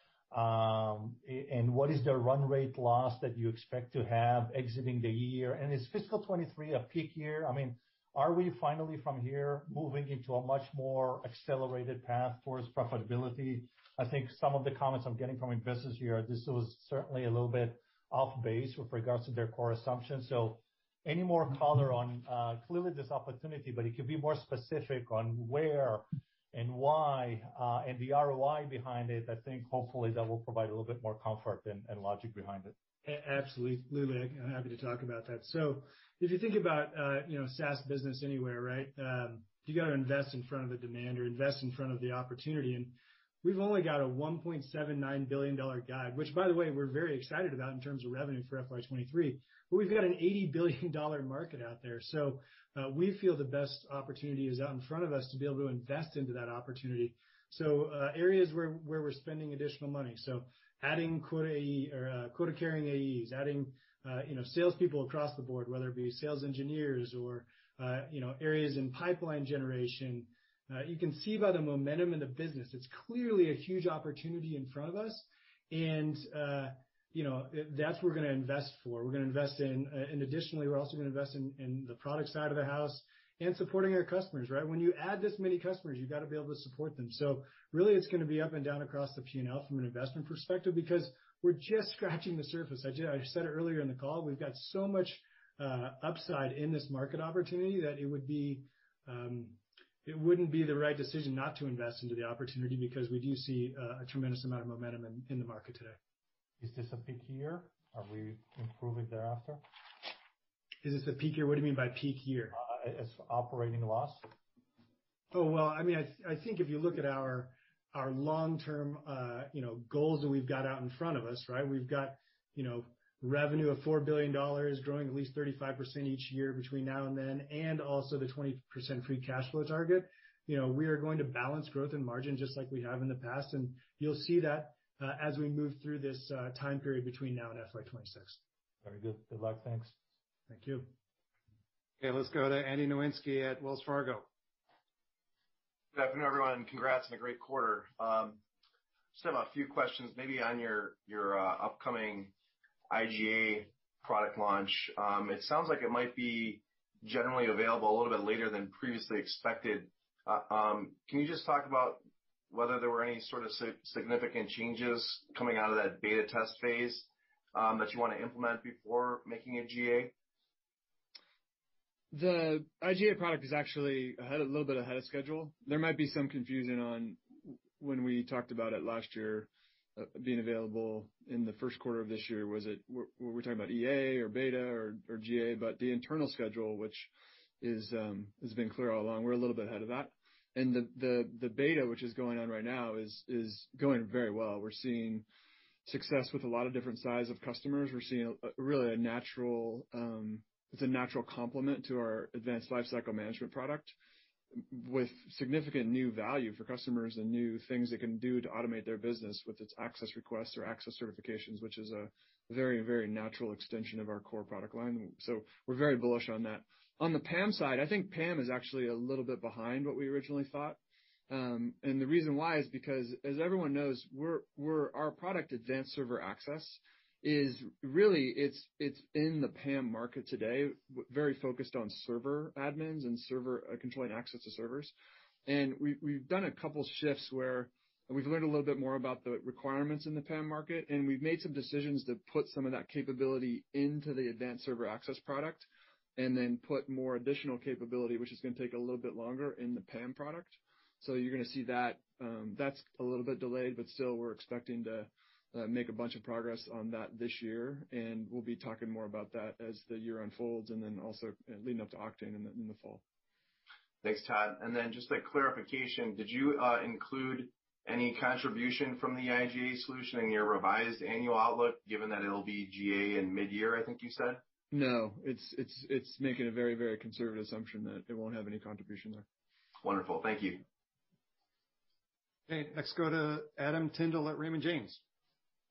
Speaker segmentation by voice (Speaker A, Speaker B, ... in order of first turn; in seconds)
Speaker A: 0.3-32.7, 106.6-109.6, 112.5-114.3, 138.8-139.9
Speaker B: 33.0-106.0, 110.8-112.6, 115.3-138.4, 140.5-140.9
Speaker C: 142.0-144.3, 282.5-285.0
Speaker D: 145.9-148.4, 149.1-152.3, 152.9-170.1, 264.0-274.4, 279.8-280.6
Speaker E: 172.1-187.1, 187.6-195.2, 195.8-203.9, 204.6-220.8, 221.3-234.9, 235.5-245.7, 246.2-263.0, 274.7-279.2